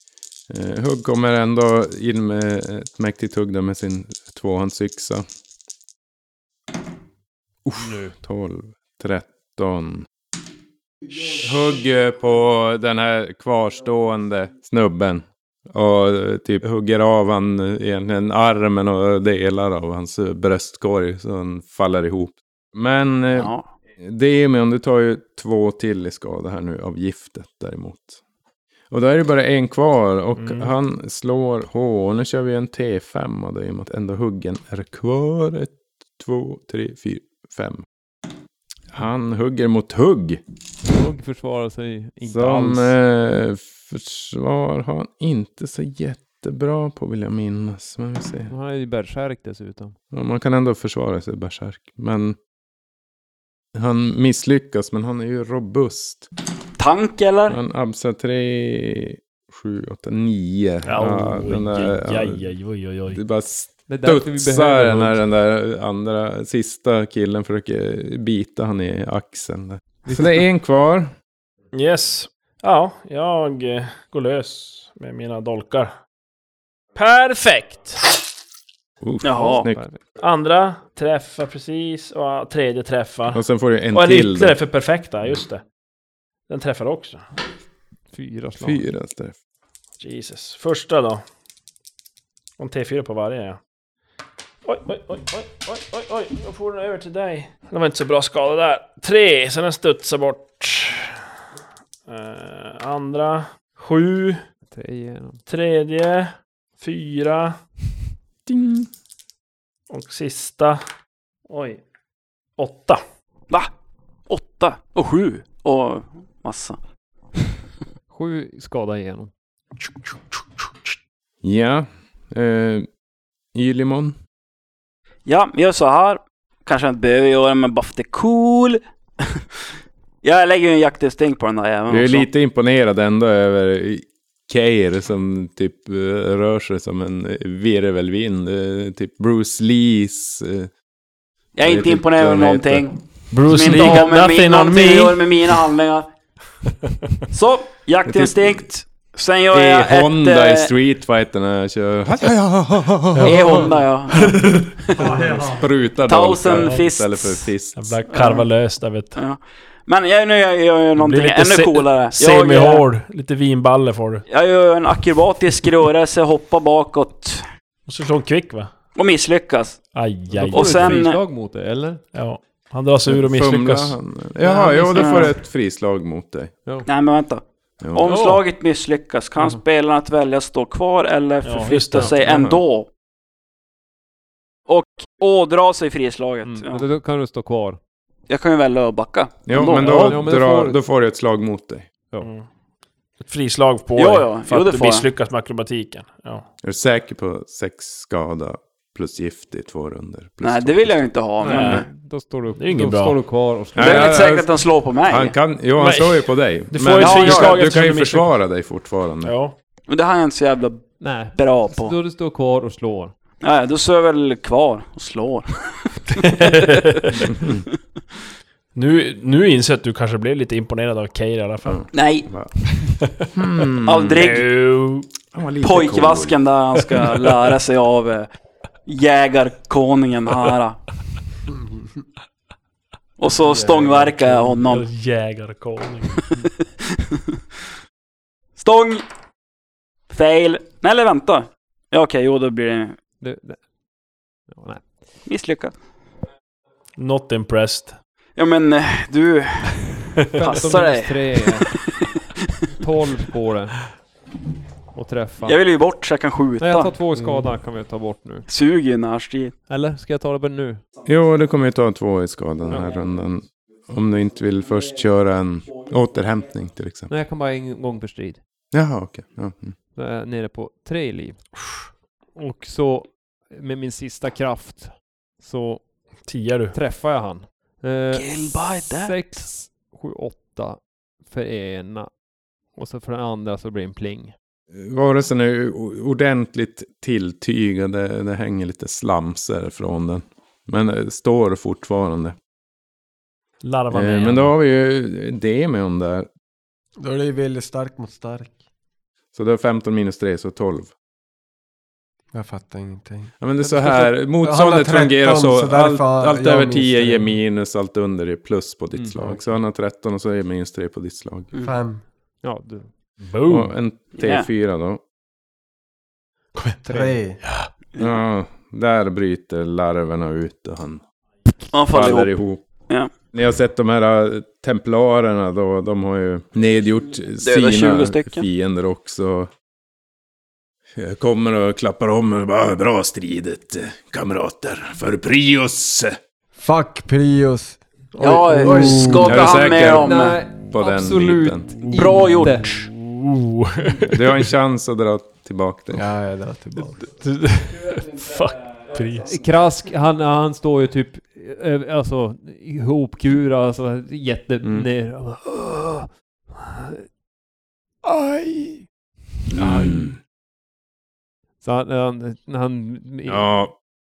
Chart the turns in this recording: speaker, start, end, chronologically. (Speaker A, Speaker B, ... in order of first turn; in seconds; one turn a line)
Speaker A: 0.5-5.2
Speaker A: 7.6-10.1
Speaker A: 11.1-28.2
Speaker B: 23.3-23.6
Speaker A: 28.9-37.9
Speaker C: 30.4-30.7
Speaker A: 38.9-40.4
Speaker D: 40.8-42.9
Speaker A: 42.3-48.5
Speaker D: 48.5-50.0
Speaker A: 50.1-52.4
Speaker A: 53.7-56.3
Speaker B: 56.8-57.6
Speaker A: 57.5-62.4
Speaker C: 60.8-63.2
Speaker A: 63.1-71.1
Speaker D: 63.9-65.2
Speaker C: 71.7-75.9
Speaker C: 76.9-78.2
Speaker A: 79.0-79.8
Speaker B: 79.2-79.7
Speaker D: 79.6-80.0
Speaker C: 80.2-85.6
Speaker A: 83.3-84.6
Speaker C: 86.5-87.2
Speaker D: 88.1-88.8
Speaker A: 88.6-89.3
Speaker C: 90.0-91.2
Speaker C: 92.6-93.6
Speaker C: 94.6-101.2
Speaker C: 102.1-104.4
Speaker D: 104.7-105.4
Speaker C: 105.5-107.5
Speaker A: 108.5-108.9
Speaker C: 109.9-110.8
Speaker C: 111.5-111.8
Speaker C: 112.6-113.0
Speaker B: 114.3-116.8
Speaker D: 118.1-119.3
Speaker A: 121.4-122.9
Speaker A: 123.5-124.2
Speaker B: 125.2-129.4
Speaker B: 130.2-132.3
Speaker A: 131.9-140.7
Speaker B: 141.6-146.1
Speaker A: 141.6-142.9
Speaker C: 143.3-145.3
Speaker B: 147.3-150.7
Speaker A: 148.1-148.7
Speaker A: 149.5-153.6
Speaker C: 153.2-155.4
Speaker B: 153.2-155.1
Speaker E: 154.9-155.6
Speaker A: 155.5-158.0
Speaker B: 156.1-157.5
Speaker C: 156.5-156.8
Speaker C: 157.7-159.2
Speaker B: 158.1-158.5
Speaker B: 159.1-162.8
Speaker C: 160.9-164.2
Speaker B: 164.3-167.4
Speaker C: 167.9-168.7
Speaker B: 168.9-169.9
Speaker C: 169.9-171.0
Speaker D: 170.4-172.0
Speaker B: 170.4-171.2
Speaker C: 172.1-174.0
Speaker A: 173.1-176.5
Speaker D: 174.4-175.3
Speaker B: 174.9-175.3
Speaker B: 176.8-182.9
Speaker A: 177.8-178.1
Speaker C: 178.1-178.4
Speaker C: 181.4-182.2
Speaker A: 182.2-182.6
Speaker B: 184.7-186.8
Speaker D: 186.4-187.8
Speaker B: 188.3-190.1
Speaker A: 189.5-191.9
Speaker C: 189.8-190.1
Speaker D: 189.8-190.8
Speaker C: 192.2-192.5
Speaker C: 193.2-196.4
Speaker B: 193.9-195.0
Speaker A: 196.6-201.0
Speaker B: 200.4-201.9
Speaker C: 201.4-201.8
Speaker D: 201.4-204.2
Speaker C: 202.6-203.2
Speaker A: 203.7-209.3
Speaker B: 203.8-205.3
Speaker C: 205.8-208.3
Speaker B: 207.0-207.6
Speaker C: 209.2-209.6
Speaker B: 209.9-211.9
Speaker D: 211.0-213.1
Speaker B: 213.4-216.5
Speaker C: 216.2-217.2
Speaker A: 217.3-217.6
Speaker C: 218.7-221.9
Speaker A: 221.6-222.5
Speaker B: 221.9-222.3
Speaker C: 223.0-223.3
Speaker A: 223.3-224.3
Speaker B: 223.8-224.5
Speaker C: 224.2-225.1
Speaker A: 225.3-226.4
Speaker B: 225.6-228.3
Speaker B: 228.8-230.8
Speaker E: 231.5-232.0
Speaker B: 233.2-234.8
Speaker E: 233.4-234.5
Speaker C: 234.6-236.4
Speaker B: 238.6-239.0
Speaker B: 240.1-242.9
Speaker D: 243.2-243.7
Speaker D: 244.5-245.0
Speaker B: 245.2-245.7
Speaker C: 247.0-247.9
Speaker B: 248.3-251.9
Speaker D: 250.3-251.7
Speaker D: 252.8-253.9
Speaker D: 254.9-255.6
Speaker B: 255.4-256.9
Speaker D: 256.6-258.4
Speaker B: 258.5-259.5
Speaker D: 259.7-260.8
Speaker A: 261.0-267.1
Speaker D: 267.1-268.4
Speaker A: 268.7-269.8
Speaker D: 269.9-271.4
Speaker D: 272.3-282.2
Speaker C: 276.2-276.7
Speaker B: 278.1-279.1
Speaker D: 282.7-284.3
Speaker A: 284.7-292.4
Speaker C: 293.6-294.5
Speaker A: 293.9-296.3
Speaker E: 297.0-298.6
Speaker A: 299.3-300.9
Speaker E: 302.3-303.3
Speaker A: 303.4-311.5
Speaker D: 303.6-304.1
Speaker E: 304.4-307.3
Speaker E: 311.6-312.0
Speaker D: 312.4-312.9
Speaker C: 313.2-313.7
Speaker A: 313.4-315.0
Speaker B: 314.1-314.5
Speaker E: 316.6-317.4
Speaker D: 316.9-317.1
Speaker C: 317.4-317.7
Speaker A: 318.0-321.0
Speaker B: 321.7-322.4
Speaker A: 321.9-322.6
Speaker A: 323.3-329.5
Speaker B: 327.4-328.4
Speaker A: 330.9-336.1
Speaker E: 336.6-339.4
Speaker B: 338.2-340.4
Speaker A: 339.2-341.8
Speaker D: 339.5-342.8
Speaker C: 341.8-344.3
Speaker B: 341.9-342.8
Speaker A: 344.1-346.0
Speaker E: 345.9-347.0
Speaker C: 347.0-349.3
Speaker D: 349.0-356.2
Speaker A: 354.6-354.9
Speaker D: 358.0-358.8
Speaker A: 359.5-360.1
Speaker D: 361.6-363.6
Speaker A: 363.3-363.7